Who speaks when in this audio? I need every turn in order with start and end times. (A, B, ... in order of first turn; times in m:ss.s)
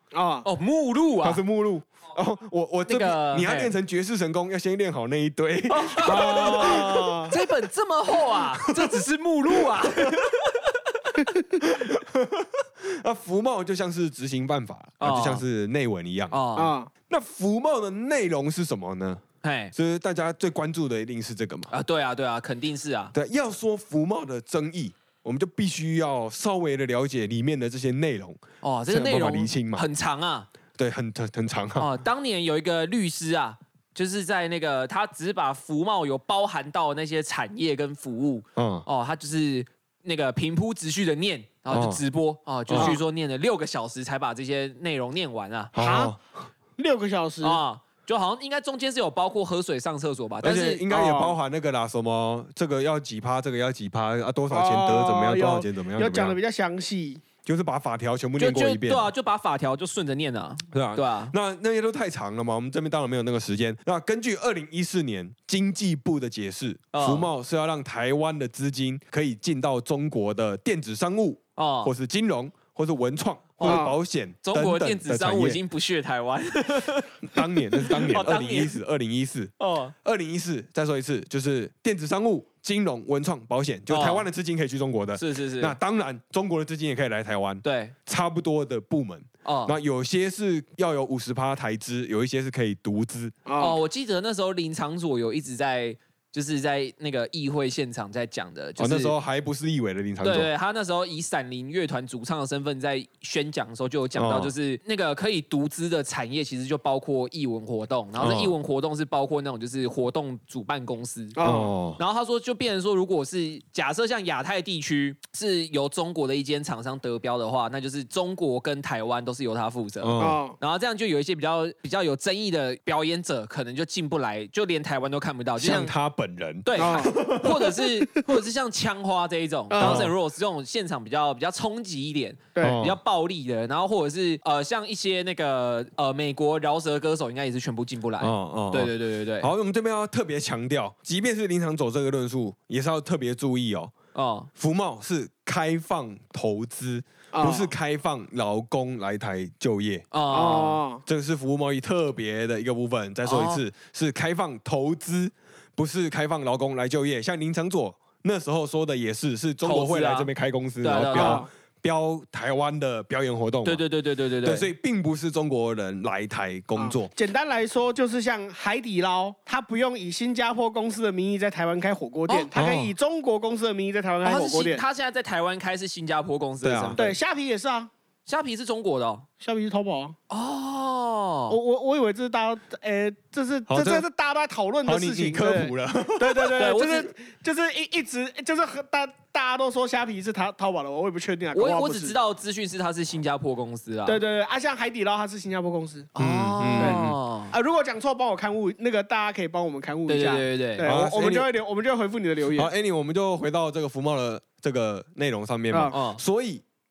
0:00.1-0:00.5 A
0:00.4-0:01.4 B
0:01.2-0:07.2 C
0:02.9-0:03.7 B
0:05.7-0:10.7 B
0:06.0-0:07.3 A
0:08.5-0:08.8 C
0:11.2-0:11.4 A
0:11.6-0:16.4 C
0:15.0-0:15.4 B
0:16.3-0:16.7 B
0:16.5-0:16.9 A
0:17.1-0:19.2 C
0:19.4-0:19.7 B
0:19.7-0:21.7 C
0:21.7-0:23.1 B
0:23.1-0:29.8 C
0:28.6-0:30.5 B
0:30.8-0:31.9 C
0:31.8-0:45.7 B
0:38.6-0:38.8 C
0:41.7-0:42.0 C
0:42.7-0:43.0 C
0:42.8-0:43.0 A
0:45.7-0:46.2 C
0:45.8-0:46.1 A
0:46.8-0:47.6 A
0:47.4-0:50.8 B
0:50.4-0:56.4 C
0:50.9-0:51.4 A
0:54.5-0:57.2 A
0:57.4-0:59.1 C
0:58.4-1:01.3 B
1:00.7-1:15.6 C
1:06.9-1:07.3 B
1:11.6-1:11.9 B
1:13.6-1:18.8 B
1:13.6-1:14.0 A
1:17.2-1:33.4 C
1:19.6-1:19.9 B
1:23.9-1:24.3 B
1:25.2-1:25.8 B
1:27.6-1:27.9 B
1:29.4-1:29.7 B
1:33.4-1:33.8 A
1:33.6-1:39.1 B
1:38.8-1:40.5 C
1:40.2-1:51.4 B
1:44.1-1:44.5 C
1:48.2-1:48.5 C
1:51.4-1:51.7 A
1:51.4-1:52.0 C
1:52.0-2:05.9 B
2:00.0-2:00.4 C
2:00.2-2:00.6 A
2:05.6-2:07.8 C
2:06.6-2:19.5 B
2:06.7-2:07.2 A
2:09.7-2:10.1 A
2:09.8-2:10.1 C
2:12.5-2:12.8 A
2:12.6-2:13.0 C
2:18.2-2:23.9 C
2:24.1-2:24.5 B
2:24.6-2:30.1 C
2:27.3-2:27.7 A
2:30.1-2:30.8 B
2:30.3-2:31.0 A
2:31.0-2:43.8 C
2:33.2-2:33.6 B
2:39.6-2:40.3 B
2:40.8-2:41.4 B
2:41.1-2:41.5 A
2:43.6-2:44.7 B
2:44.4-2:47.1 C
2:46.8-2:54.8 A
2:52.5-2:52.9 C
2:54.2-2:57.1 B
2:56.6-2:57.1 C
2:57.0-2:57.9 A
2:58.3-2:59.2 B
2:59.4-3:00.1 A
3:00.3-3:01.6 B
3:01.5-3:12.2 A
3:03.7-3:04.0 C
3:04.8-3:06.6 C
3:06.6-3:07.1 B
3:11.5-3:14.2 B
3:14.0-3:16.1 A
3:16.2-3:17.5 B
3:16.2-3:17.1 C
3:16.8-3:22.7 A
3:20.1-3:20.9 B
3:20.8-3:21.5 C
3:22.6-3:26.6 C
3:25.9-3:26.2 B